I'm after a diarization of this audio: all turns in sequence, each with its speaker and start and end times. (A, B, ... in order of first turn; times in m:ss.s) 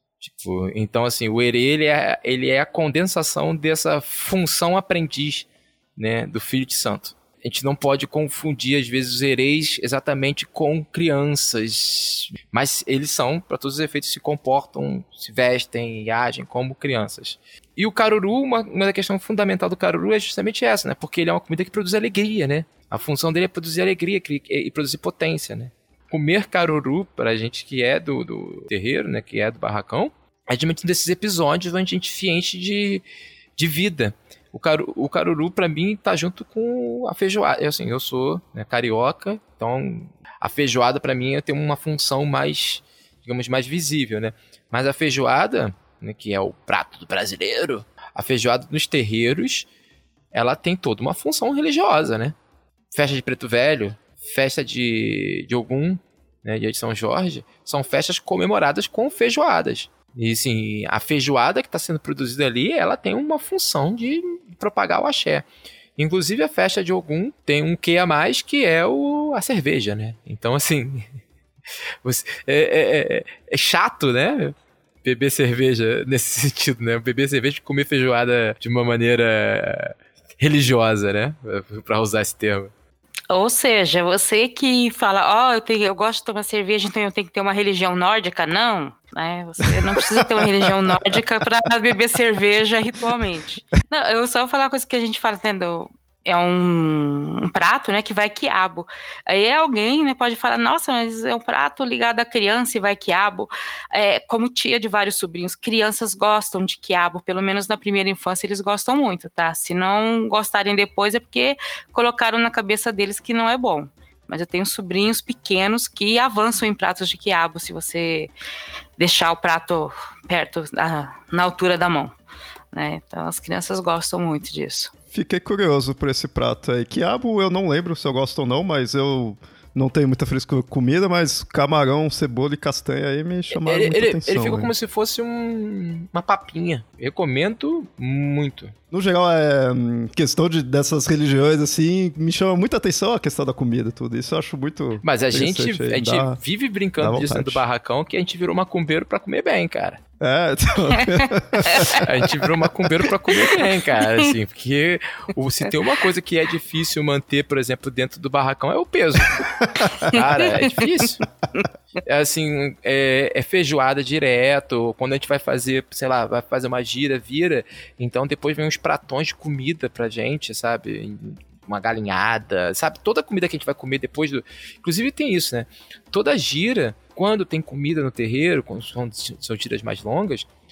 0:00.2-0:33.0 A
0:33.6-0:49.7 A
0:50.3-0:52.4 A
0:52.9-1:05.4 A
1:06.0-1:11.1 A
1:12.0-1:22.7 A
1:23.3-1:58.3 B
1:29.6-1:31.2 C
1:59.0-2:02.1 B
2:02.7-2:04.9 B
2:05.1-2:14.7 C
2:13.5-2:18.7 A
2:18.9-2:26.4 C
2:25.0-2:30.0 A
2:27.0-2:27.6 C
2:30.2-2:32.9 C
2:31.0-2:31.9 B
2:31.9-2:41.2 A
2:39.8-2:40.1 C
2:42.0-3:00.5 A